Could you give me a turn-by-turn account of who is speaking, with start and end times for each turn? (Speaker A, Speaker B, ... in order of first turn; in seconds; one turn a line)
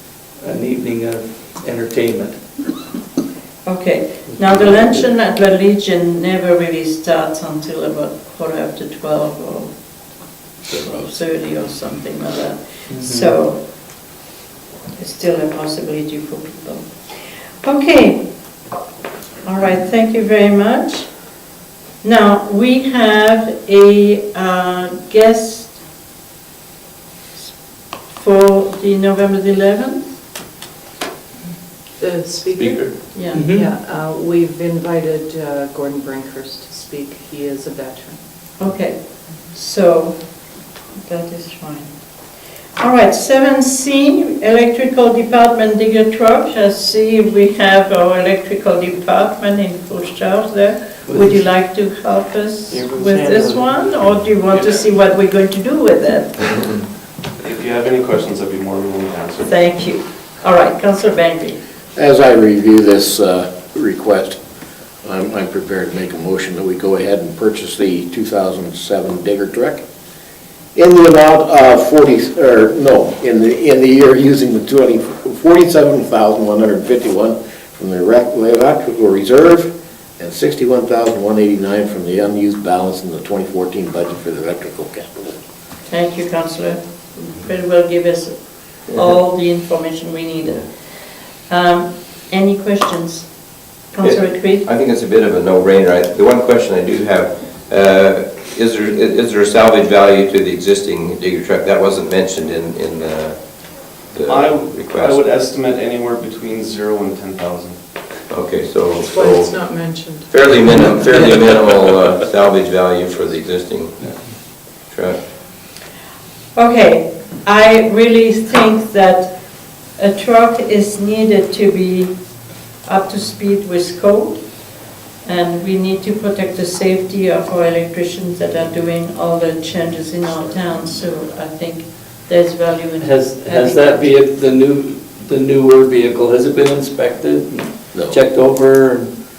Speaker A: 0.4-2.4
Speaker B: 3.7-9.7
Speaker A: 4.3-5.0
Speaker B: 10.7-13.6
Speaker A: 12.9-13.4
Speaker B: 15.0-16.9
Speaker B: 17.6-18.2
Speaker B: 19.4-21.1
Speaker B: 22.0-25.8
Speaker B: 28.1-30.1
Speaker C: 32.0-38.2
Speaker A: 32.5-33.7
Speaker B: 33.1-33.5
Speaker B: 38.6-39.0
Speaker B: 39.5-40.2
Speaker B: 41.0-41.9
Speaker B: 42.8-56.6
Speaker A: 51.1-51.5
Speaker A: 52.7-53.8
Speaker D: 57.4-59.5
Speaker B: 59.4-61.6
Speaker E: 62.0-64.4
Speaker E: 65.0-69.8
Speaker E: 70.8-85.3
Speaker B: 85.9-90.6
Speaker B: 91.5-93.3
Speaker B: 93.9-94.7
Speaker F: 94.0-105.3
Speaker D: 104.3-107.8
Speaker F: 108.3-109.5
Speaker C: 109.0-110.3
Speaker F: 110.3-114.0
Speaker F: 114.8-115.2
Speaker B: 116.5-119.3
Speaker B: 120.0-122.1
Speaker B: 122.8-124.4
Speaker B: 125.2-134.1
Speaker A: 133.0-139.1
Speaker E: 137.9-138.2